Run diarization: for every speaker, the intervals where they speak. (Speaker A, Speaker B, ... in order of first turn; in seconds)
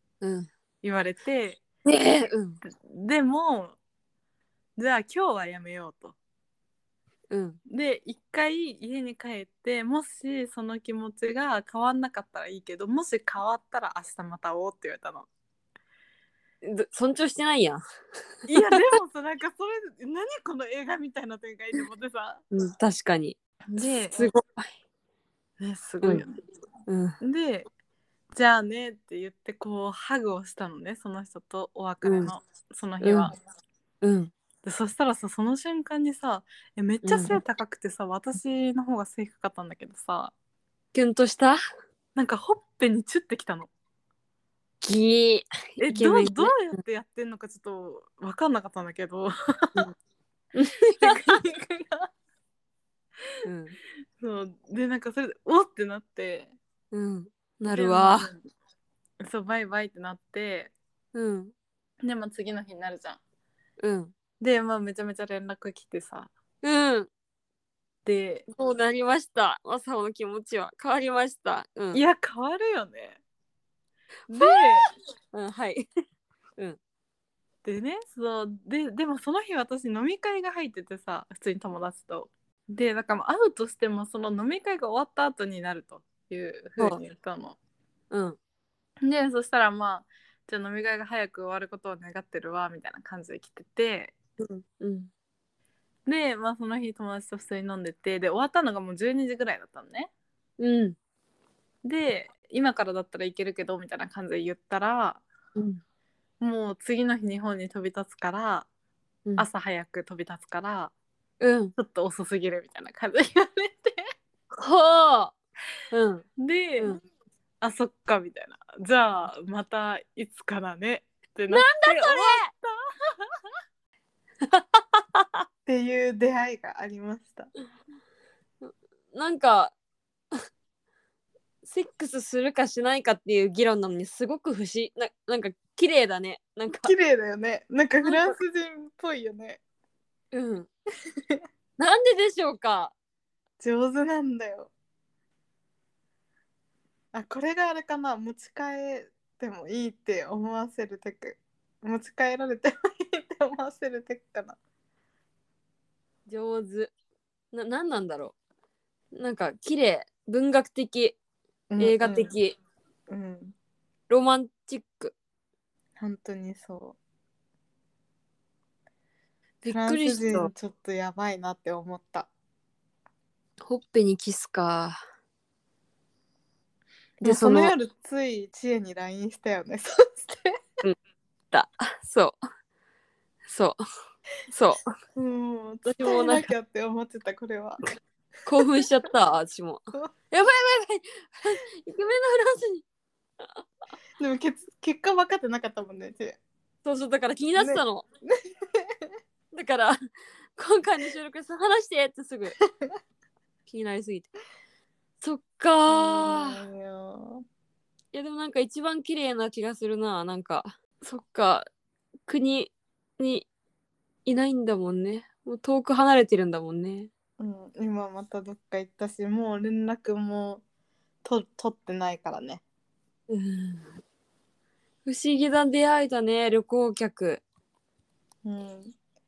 Speaker A: 0.2-0.5, 1.9-2.6, 7.3-7.6, 16.6-17.8, 22.5-23.4, 24.1-24.7, 26.9-27.1, 32.0-32.3, 33.0-33.3, 34.0-34.3, 37.0-37.4, 40.9-41.6, 44.8-46.8, 50.5-51.2, 53.5-53.8, 56.9-58.3, 61.1-61.5, 63.8-64.1, 66.6-67.1, 68.5-72.0, 74.4-75.8, 88.1-88.4, 94.4-95.1, 100.6-101.0, 105.6-105.8, 111.4-111.7, 114.6-115.3, 115.9-116.2, 121.5-122.5, 124.8-125.2, 128.6-129.7, 131.7-136.9, 138.0-138.4, 140.3-140.7, 141.8-142.9, 156.3-156.9, 157.5-158.3, 159.2-161.2, 161.8-162.6, 164.1-165.2, 169.6-170.5, 173.6-175.0, 177.2-177.7, 181.5-182.4, 183.5-183.8, 184.5-184.9, 185.9-186.5, 188.5-192.8, 196.8-198.1, 199.5-200.0, 200.6-202.6, 203.7-204.3, 205.2-206.6, 208.1-211.7, 212.3-213.5, 214.3-217.1, 223.3-223.9, 225.1-227.4
Speaker B: 0.8-1.6, 2.9-3.8, 4.8-6.2, 7.7-15.3, 18.5-22.4, 23.7-24.3, 25.6-26.5, 27.2-27.7, 28.3-33.4, 34.6-40.3, 42.2-43.7, 45.8-49.3, 51.0-52.1, 54.2-56.5, 57.7-58.4, 59.2-60.7, 62.0-63.2, 64.4-66.3, 68.1-68.5, 71.9-73.2, 74.3-74.9, 77.6-87.6, 89.0-94.2, 96.1-100.1, 101.8-105.2, 106.4-108.7, 109.4-110.9, 111.8-114.0, 116.4-117.0, 117.6-122.7, 125.7-127.5, 136.7-139.6, 143.6-144.7, 147.1-154.6, 161.7-162.4, 163.1-163.6, 166.0-167.0, 169.7-172.3, 177.2-180.5, 185.2-187.8, 194.2-196.4, 197.6-199.0, 202.6-202.9, 205.9-207.4, 217.4-220.6, 221.2-222.6, 228.4-228.9